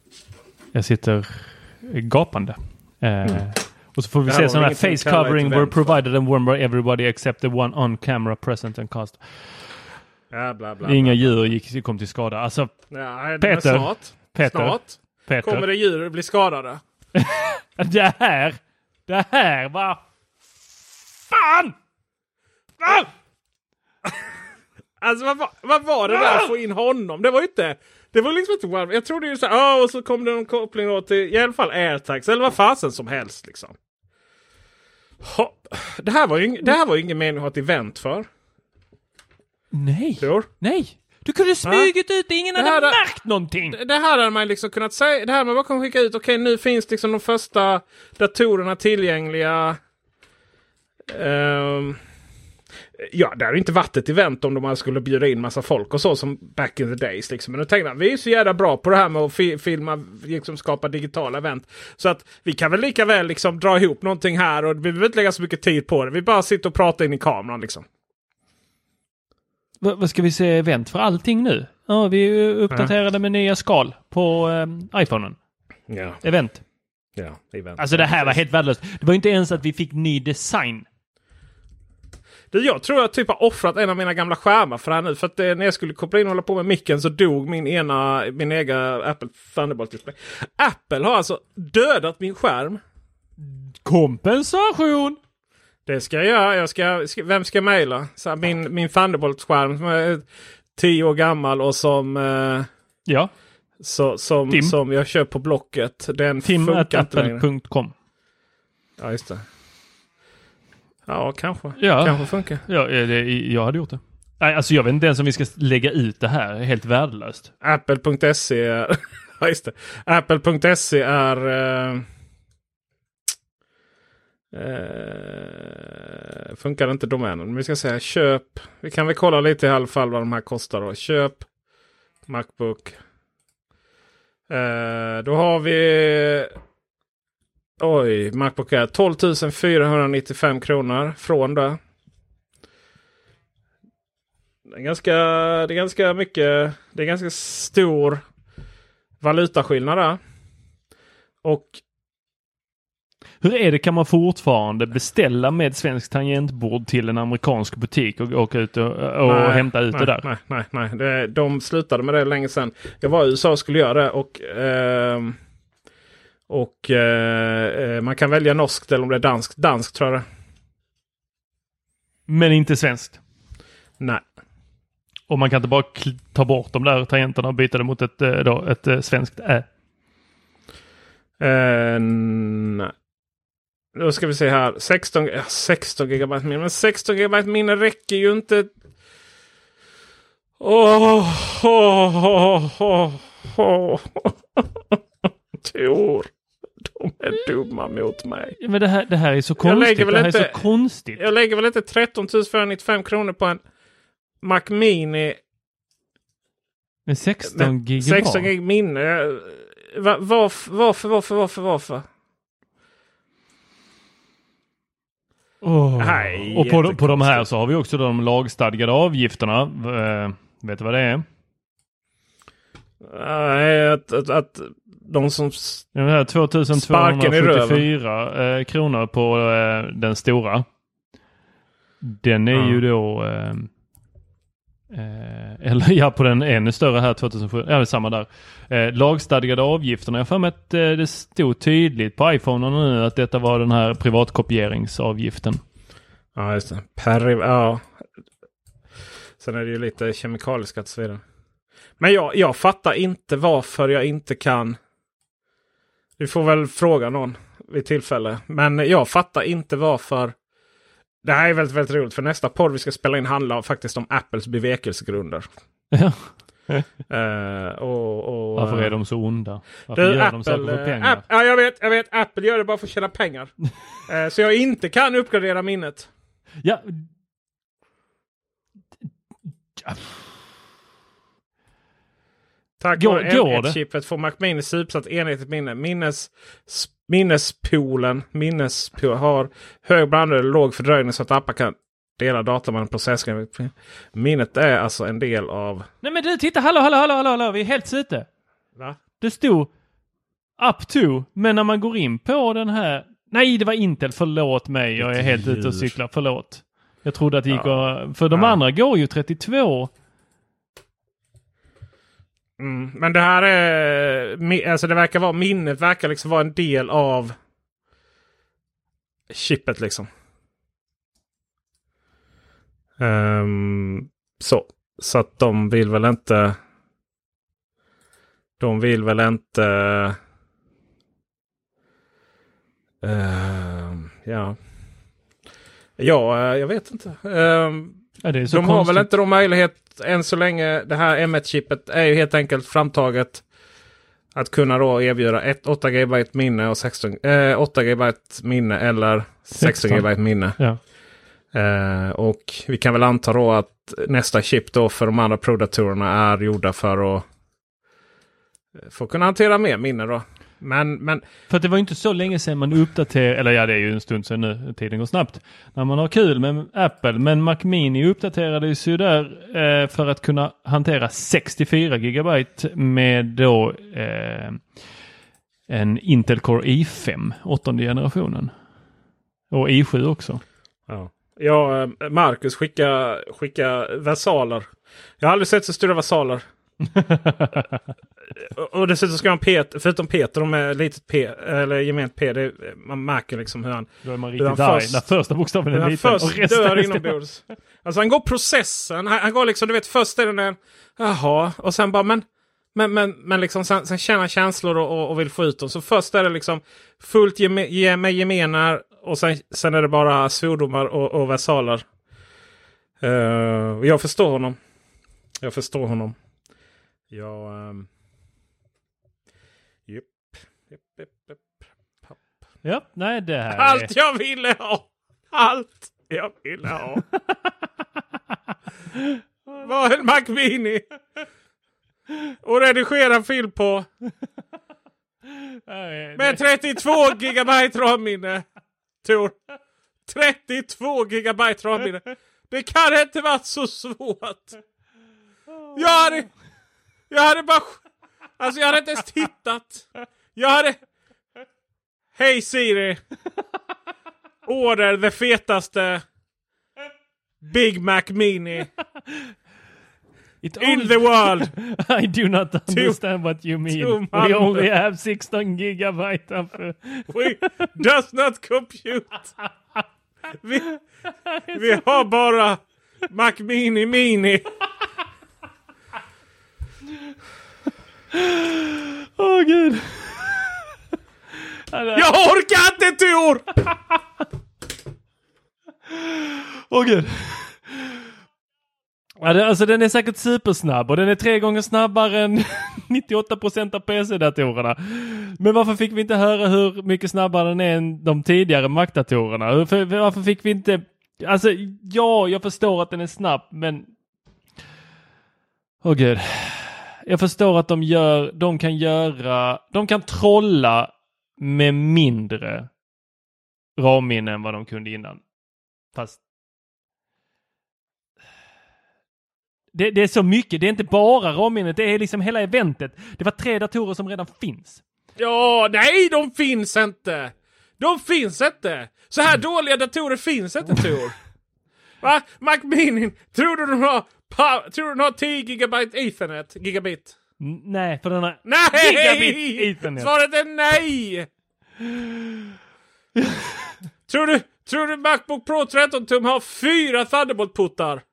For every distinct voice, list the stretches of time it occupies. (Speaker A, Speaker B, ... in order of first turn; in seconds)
Speaker A: 0.7-9.7, 10.8-12.7, 13.4-15.6, 17.2-20.0, 21.3-21.7, 22.8-23.1, 26.1-26.4, 39.7-43.8, 69.8-75.4, 76.2-76.6, 77.8-80.9, 93.4-95.2, 103.1-103.3, 104.5-104.8, 106.4-107.9, 111.8-117.5, 153.4-160.3, 172.3-173.2, 175.3-179.7, 198.6-201.2, 207.1-208.5, 215.6-221.2, 225.9-230.7, 232.0-233.7, 234.9-245.6, 265.9-266.8, 268.6-271.2, 276.6-277.1, 279.8-280.3, 283.0-283.8, 296.0-298.3, 299.2-299.7, 300.6-309.9, 338.2-339.1, 349.5-350.8, 361.5-374.6, 375.7-378.5, 379.5-380.4, 386.9-387.7, 394.0-397.1, 422.6-423.9, 435.7-436.4, 460.4-467.3, 478.1-480.5, 481.7-482.1, 486.0-487.8, 489.2-503.9, 505.8-512.7, 513.8-515.2, 515.9-516.2, 519.7-524.8, 537.4-540.1, 543.2-543.7
Speaker B: 4.2-6.0, 10.3-11.3, 12.9-16.8, 25.0-33.7, 35.2-38.3, 40.2-40.5, 41.7-41.9, 42.5-49.8, 51.1-52.0, 53.0-67.8, 75.9-76.2, 77.2-78.4, 82.5-92.8, 95.9-100.2, 100.8-102.7, 103.8-107.4, 109.0-109.4, 111.1-112.6, 117.6-122.0, 124.5-131.4, 132.3-133.0, 134.5-136.5, 137.8-141.8, 144.7-148.2, 149.2-150.2, 151.4-151.8, 159.3-165.4, 166.5-170.2, 181.4-182.9, 183.9-188.7, 190.6-195.0, 195.6-196.3, 196.9-198.6, 199.6-200.6, 201.1-203.6, 204.4-205.4, 207.5-212.1, 216.0-217.4, 223.0-225.9, 226.7-227.9, 232.5-232.8, 246.4-247.9, 249.4-251.2, 252.0-254.8, 256.2-260.3, 261.2-265.4, 267.1-268.9, 269.9-273.6, 274.1-276.1, 282.8-295.9, 305.0-305.9, 307.5-308.6, 312.6-317.4, 319.3-320.1, 323.0-326.6, 328.6-330.2, 333.0-334.6, 336.0-343.4, 344.3-350.6, 351.5-357.2, 358.9-361.2, 380.9-384.7, 385.2-386.4, 388.6-395.0, 395.7-411.8, 413.0-414.6, 415.4-416.2, 417.1-417.9, 419.9-421.4, 423.5-427.0, 429.6-430.8, 432.4-433.9, 436.2-438.4, 439.0-439.4, 440.1-444.6, 445.8-446.3, 447.1-447.8, 448.4-450.8, 452.2-453.0, 454.4-456.0, 457.4-458.7, 460.6-461.5, 462.7-463.0, 463.7-464.7, 467.1-469.3, 470.4-470.7, 471.5-474.4, 481.9-483.5, 525.2-531.1, 532.0-537.1, 538.5-541.3, 544.1-548.0